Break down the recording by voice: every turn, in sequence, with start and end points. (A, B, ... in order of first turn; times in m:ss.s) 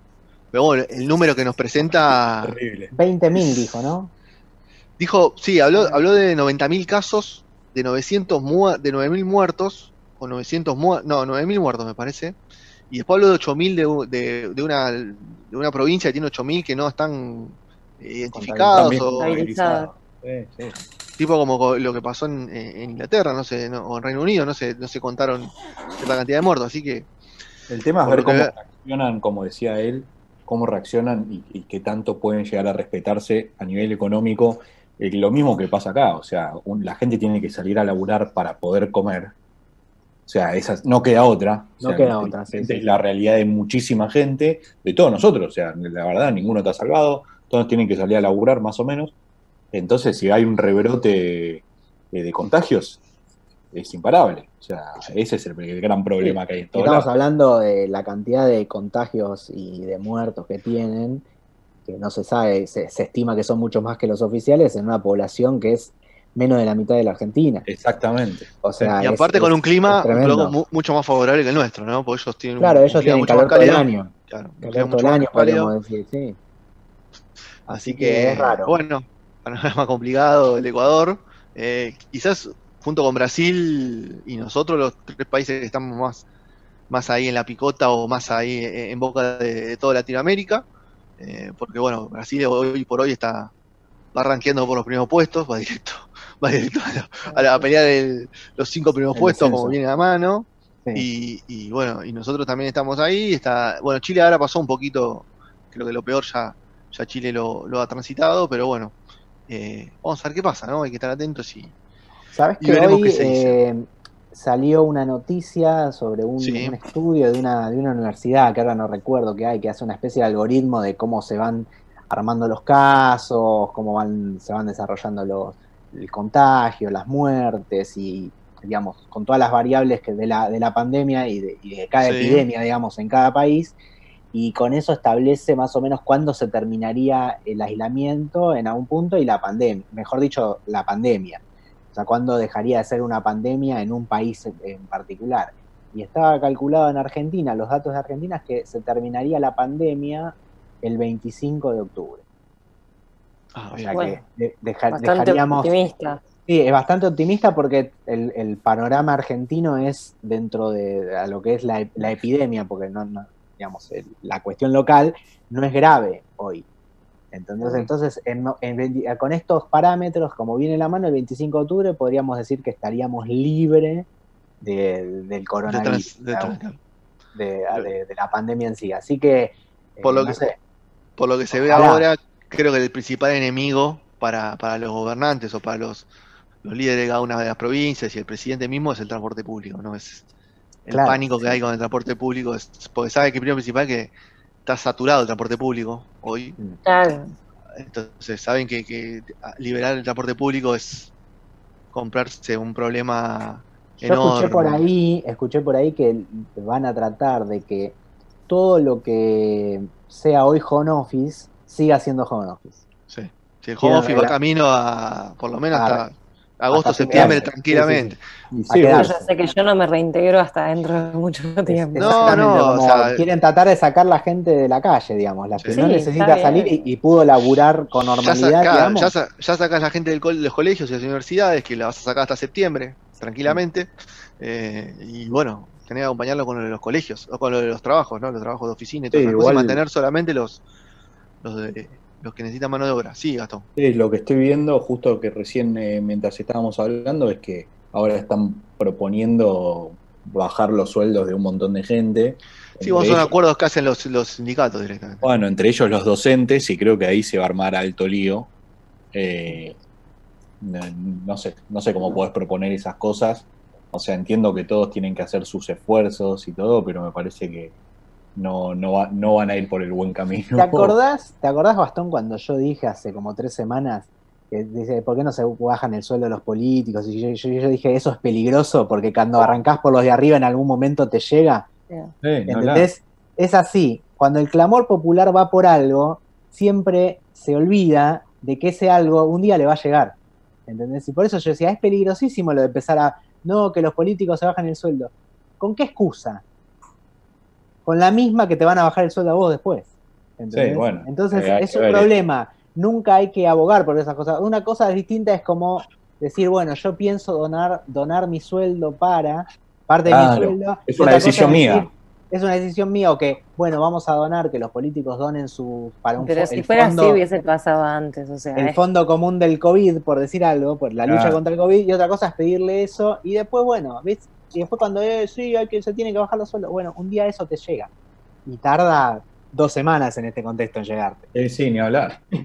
0:00.5-0:02.6 A
0:01.8-0:02.9 B
0:02.9-0:04.1 C
0:03.3-0:03.7 A
0:05.0-0:12.4 A
0:05.8-0:06.0 D
0:12.9-0:19.4 A
0:18.3-0:18.9 C
0:18.7-0:20.8 B
0:19.2-0:19.9 D
0:21.2-0:27.1 A
0:27.7-0:39.3 B
0:28.0-0:28.5 A
0:40.3-0:49.1 B
0:41.8-0:42.8 C
0:49.7-0:53.0 B
0:53.7-0:57.1 B
0:56.2-1:01.2 C
1:01.8-1:07.6 C
1:07.7-1:08.9 B
1:08.6-1:10.6 C
1:09.0-1:15.7 A
1:12.6-1:16.4 C
1:17.7-1:18.8 C
1:17.7-1:26.2 A
1:26.9-1:30.6 A
1:31.2-1:33.5 A
1:34.1-1:49.0 A
1:39.1-1:39.8 C
1:49.5-1:51.7 A
1:52.3-2:13.8 C
1:52.6-1:53.6 A
1:56.4-1:56.8 A
2:12.0-2:12.4 A
2:14.3-2:21.4 C
2:21.9-2:32.2 C
2:33.5-2:34.0 A
2:33.7-2:35.7 C
2:33.9-2:34.2 D
2:34.9-2:36.2 D
2:36.4-2:46.6 C
2:47.3-2:54.1 C
2:47.6-2:47.9 A
2:54.6-2:56.6 C
2:55.7-2:56.8 A
2:57.3-3:00.6 C
3:00.0-3:00.4 A
3:01.2-3:06.1 A
3:01.5-3:02.1 C
3:06.6-3:10.2 A
3:10.9-3:14.1 A
3:10.9-3:11.6 C
3:14.6-3:16.6 A
3:16.8-3:17.3 D
3:17.8-3:21.1 A
3:21.9-3:24.9 A
3:24.0-3:28.0 C
3:28.5-3:32.8 C
3:33.1-3:38.2 A
3:33.8-3:34.4 C
3:35.7-3:36.0 C
3:36.7-3:39.3 C
3:37.1-3:37.4 B
3:38.6-3:39.0 B
3:39.0-3:42.4 D
3:41.7-3:49.1 C
3:42.0-3:43.2 A
3:45.6-3:45.8 A
3:45.7-3:46.8 D
3:48.2-4:00.6 A
3:59.1-3:59.8 B
4:01.4-4:03.6 A
4:03.8-4:13.3 B
4:12.8-4:15.3 A
4:15.2-4:18.5 B
4:19.1-4:19.8 B
4:20.6-4:27.7 B
4:28.4-4:30.9 B
4:30.6-4:41.6 C
4:42.2-4:42.9 B
4:42.4-4:50.1 C
4:50.7-4:56.4 C
4:57.8-5:17.2 C
5:00.5-5:02.1 B
5:10.1-5:11.9 B
5:16.2-5:18.8 D
5:18.5-5:27.9 C
5:21.1-5:21.4 B
5:28.4-5:31.3 C
5:31.3-5:32.2 B